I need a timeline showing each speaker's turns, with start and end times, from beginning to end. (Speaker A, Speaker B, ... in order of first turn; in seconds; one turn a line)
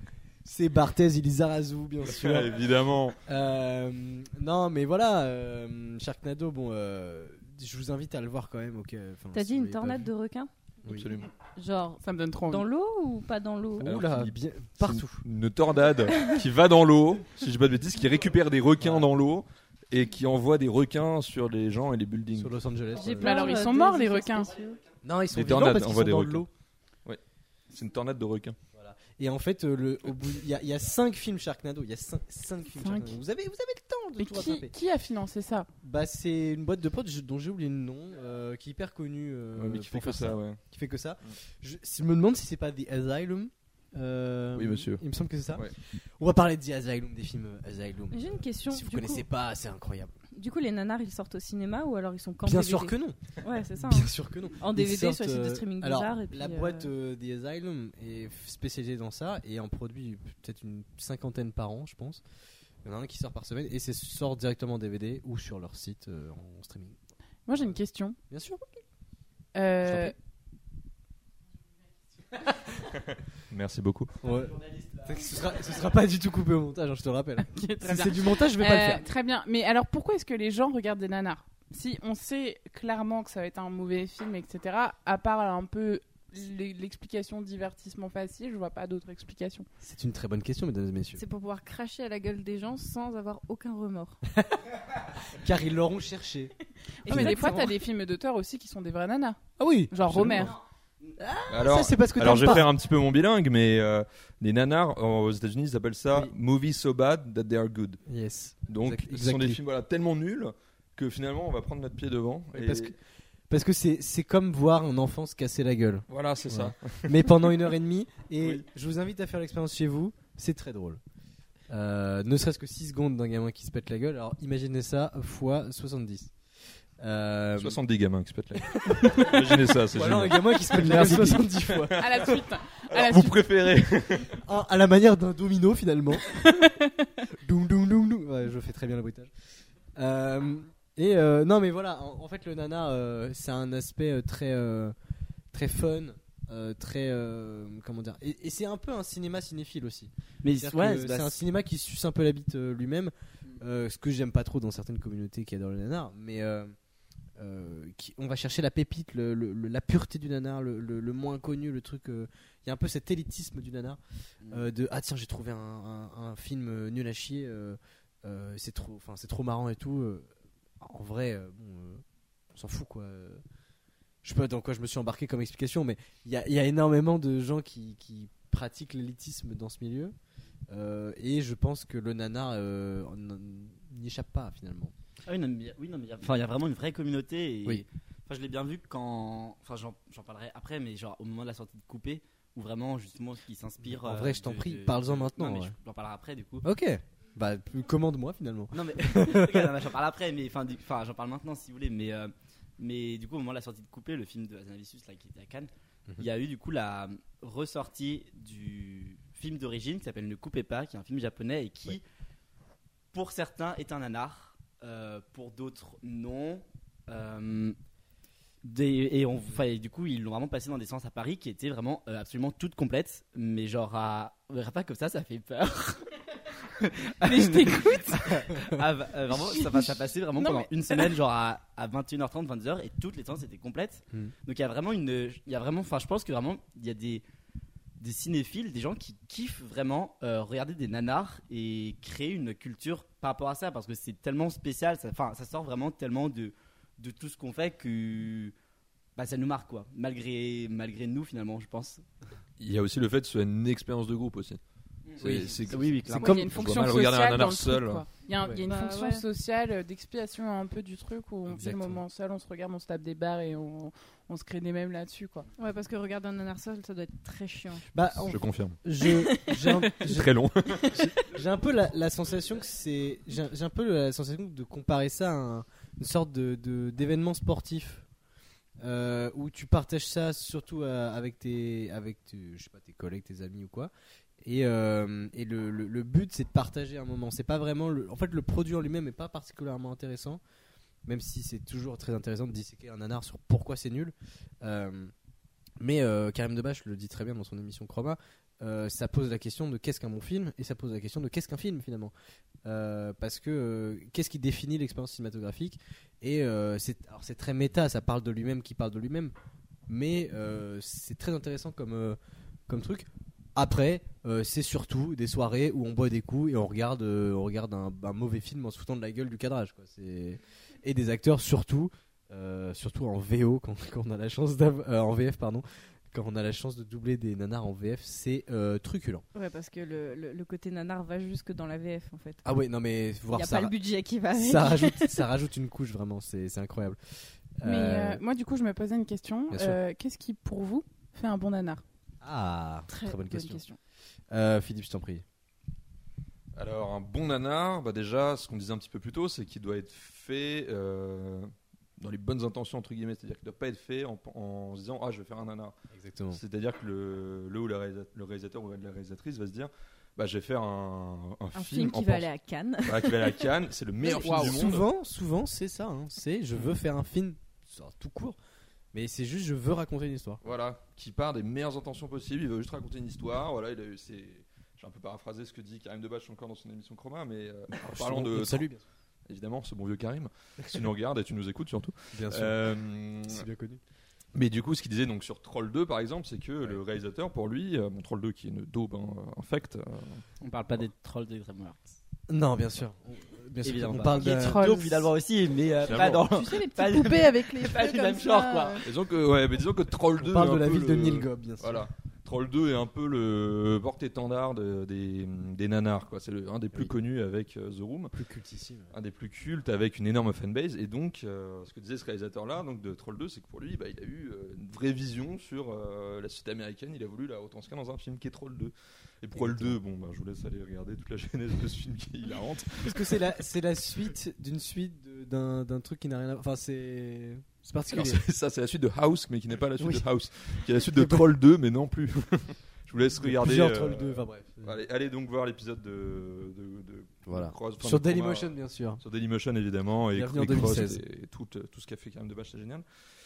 Speaker A: 0.4-2.5
Speaker B: 2.1-3.2
Speaker A: 3.2-10.1
Speaker C: 9.3-10.5
Speaker B: 10.8-11.3
Speaker C: 11.6-13.9
Speaker D: 12.0-12.6
Speaker A: 13.8-15.2
Speaker B: 13.8-22.5
Speaker A: 18.8-19.1
Speaker A: 22.4-23.6
Speaker C: 22.9-24.8
Speaker D: 23.2-24.6
Speaker A: 25.0-26.5
Speaker B: 25.3-26.5
Speaker B: 27.7-28.6
Speaker A: 28.7-34.7
Speaker C: 32.7-33.2
Speaker D: 34.2-35.7
Speaker A: 35.8-50.1
Speaker B: 39.6-40.6
Speaker B: 44.5-45.0
Speaker C: 48.1-49.2
Speaker C: 50.3-56.9
Speaker A: 52.4-53.2
Speaker A: 53.8-62.2
Speaker A: 62.8-67.0
Speaker D: 67.5-68.2
Speaker A: 68.3-68.6
Speaker D: 69.5-70.2
Speaker A: 69.8-70.1
Speaker B: 73.5-74.1
Speaker A: 74.2-79.0
Speaker D: 77.5-89.7
Speaker A: 89.8-91.2
Speaker C: 91.2-94.2
Speaker A: 94.3-94.6
Speaker A: 95.3-96.5
Speaker C: 97.0-97.8
Speaker D: 97.0-99.4
Speaker A: 97.0-97.5
Speaker A: 99.6-100.5
Speaker D: 99.9-100.5
Speaker C: 101.2-101.5
Speaker B: 101.5-108.0
Speaker A: 101.5-102.7
Speaker A: 108.1-109.6
Speaker B: 108.7-112.9
Speaker A: 112.5-113.0
Speaker A: 113.5-121.0
Speaker B: 116.1-117.4
Speaker A: 121.7-126.3
Speaker A: 127.0-127.8
Speaker B: 127.6-134.4
Speaker A: 128.8-132.0
Speaker D: 132.0-133.4
Speaker A: 134.4-136.7
Speaker D: 136.4-136.9
Speaker A: 137.4-139.3
Speaker A: 139.9-144.9
Speaker A: 145.5-156.7
Speaker E: 150.4-151.4
Speaker A: 157.4-170.3
Speaker A: 170.8-172.0
Speaker A: 172.5-173.4
Speaker A: 174.2-180.1
Speaker A: 180.7-184.9
Speaker E: 185.2-196.6
Speaker A: 193.8-195.7
Speaker A: 196.6-199.7
Speaker E: 198.7-212.0
Speaker E: 213.1-217.8
Speaker E: 218.6-226.0
Speaker E: 226.6-237.2
Speaker D: 227.2-228.3
Speaker D: 229.5-231.1
Speaker E: 238.0-248.5
Speaker E: 249.2-252.0
Speaker B: 252.6-254.6
Speaker E: 255.1-256.4
Speaker B: 255.2-258.0
Speaker A: 255.2-255.6
Speaker D: 256.1-265.5
Speaker C: 258.7-259.2
Speaker A: 261.5-262.0
Speaker C: 265.6-267.9
Speaker A: 267.9-278.0
Speaker B: 268.3-268.8
Speaker C: 269.0-269.9
Speaker B: 270.0-271.0
Speaker A: 278.8-290.4
Speaker A: 291.0-295.1
Speaker A: 295.8-302.1
Speaker A: 302.6-309.3
Speaker A: 309.9-329.2
Speaker C: 329.3-332.4
Speaker A: 332.4-333.7
Speaker C: 333.3-335.3
Speaker A: 334.3-337.0
Speaker A: 337.6-338.2
Speaker D: 337.6-341.8
Speaker A: 339.5-339.8
Speaker A: 342.2-343.6
Speaker C: 342.9-343.7
Speaker A: 344.3-345.2
Speaker B: 346.6-355.7
Speaker A: 355.9-356.4
Speaker B: 356.3-362.2
Speaker C: 361.5-363.5
Speaker B: 362.8-364.9
Speaker A: 364.2-368.4
Speaker D: 364.2-364.5
Speaker A: 368.9-370.4
Speaker B: 370.4-378.7
Speaker A: 377.8-378.8
Speaker B: 379.3-383.4
Speaker A: 382.1-382.7
Speaker A: 383.2-383.8
Speaker B: 384.3-390.2
Speaker E: 390.4-391.9
Speaker A: 392.3-394.9
Speaker E: 393.6-398.9
Speaker D: 394.2-395.1
Speaker B: 395.9-396.3
Speaker D: 396.3-398.9
Speaker B: 398.8-408.1
Speaker A: 400.2-401.9
Speaker A: 408.1-408.9
Speaker B: 408.9-423.1
Speaker A: 419.3-419.8
Speaker A: 422.8-428.2
Speaker B: 427.9-442.8
Speaker A: 429.8-430.0
Speaker A: 430.9-431.3
Speaker A: 433.2-434.8
Speaker A: 437.3-439.0
Speaker A: 440.1-441.0